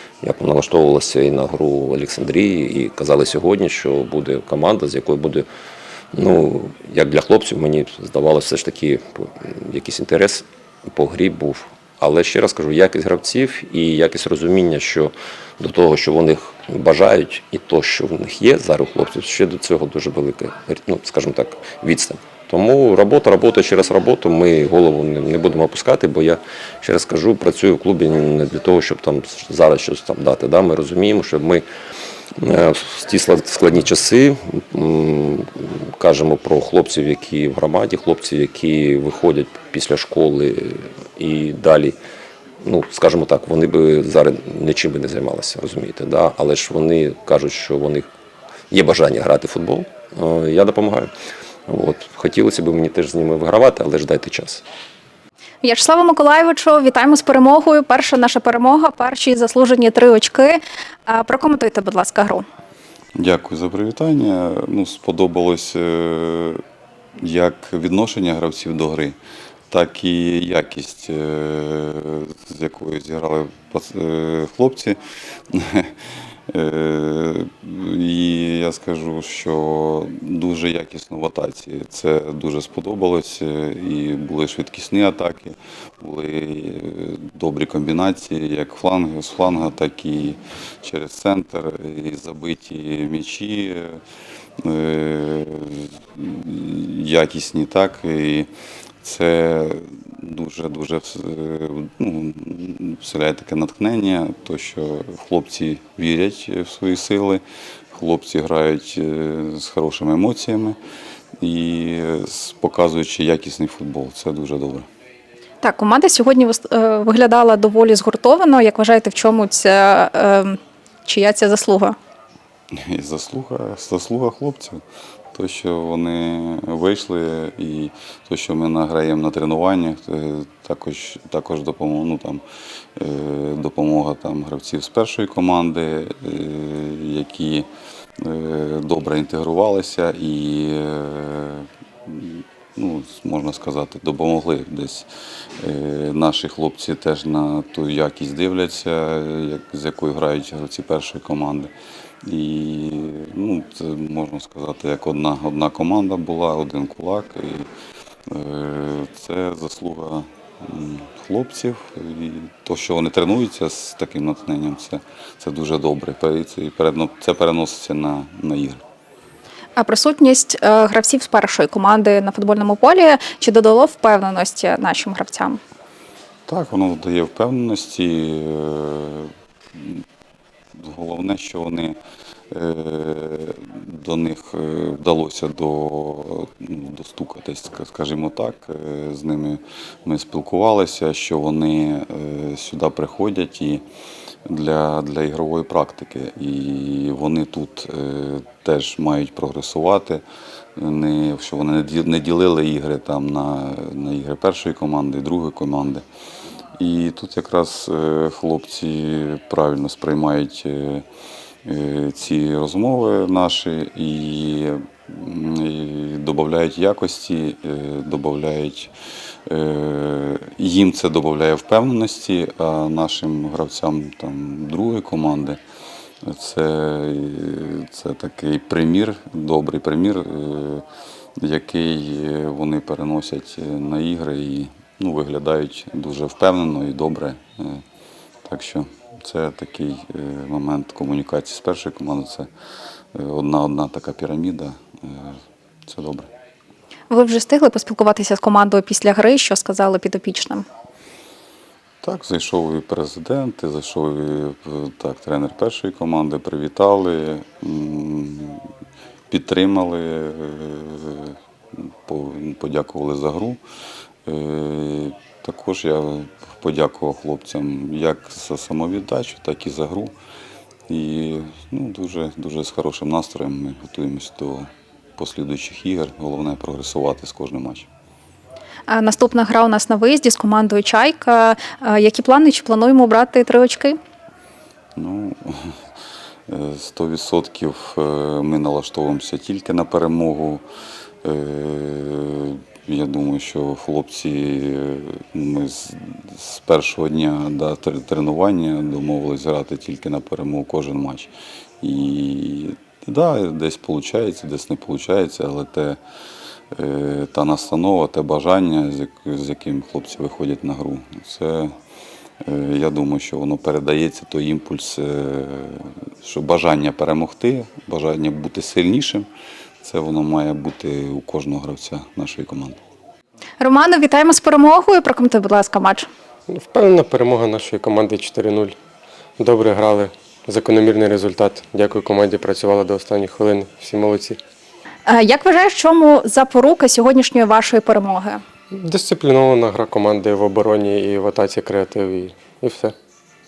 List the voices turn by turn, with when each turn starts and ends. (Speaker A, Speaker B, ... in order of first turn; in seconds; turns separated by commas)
Speaker A: 0.2-5.5, Speaker A: 6.1-31.6, Speaker A: 32.4-42.0, Speaker A: 42.6-48.1, Speaker A: 48.7-51.1, Speaker A: 51.7-54.6, Speaker B: 55.6-62.4, Speaker C: 63.1-66.6, Speaker C: 67.2-69.2, Speaker C: 69.7-75.0, Speaker C: 75.5-75.9, Speaker C: 76.5-94.0, Speaker C: 94.6-98.5, Speaker C: 99.0-110.8, Speaker C: 111.4-114.9, Speaker B: 115.6-122.0, Speaker C: 122.8-124.8, Speaker C: 125.3-132.4, Speaker C: 133.0-137.7, Speaker C: 138.2-145.1, Speaker C: 145.6-151.7, Speaker C: 152.2-157.7, Speaker C: 158.3-168.8, Speaker B: 169.8-175.6, Speaker C: 176.5-180.0, Speaker C: 180.8-181.9, Speaker C: 182.5-193.8, Speaker C: 194.5-200.2, Speaker C: 200.8-206.0, Speaker C: 206.8-211.0, Speaker C: 211.7-218.9, Speaker C: 219.5-225.6, Speaker C: 226.2-230.8, Speaker C: 231.4-237.8, Speaker C: 238.4-242.5, Speaker C: 243.1-245.3, Speaker C: 245.9-246.3, Speaker B: 247.1-250.7, Speaker C: 252.0-258.6, Speaker C: 259.3-261.3, Speaker C: 262.1-263.6, Speaker C: 264.2-270.1, Speaker C: 270.9-277.9, Speaker B: 278.9-284.0, Speaker C: 284.9-285.7, Speaker C: 286.5-290.6, Speaker C: 291.2-306.0, Speaker C: 306.7-311.7, Speaker C: 312.4-319.3, Speaker C: 319.8-322.8, Speaker B: 323.6-326.1, Speaker D: 326.5-328.8, Speaker D: 329.4-334.4, Speaker B: 335.1-338.4, Speaker D: 338.7-342.9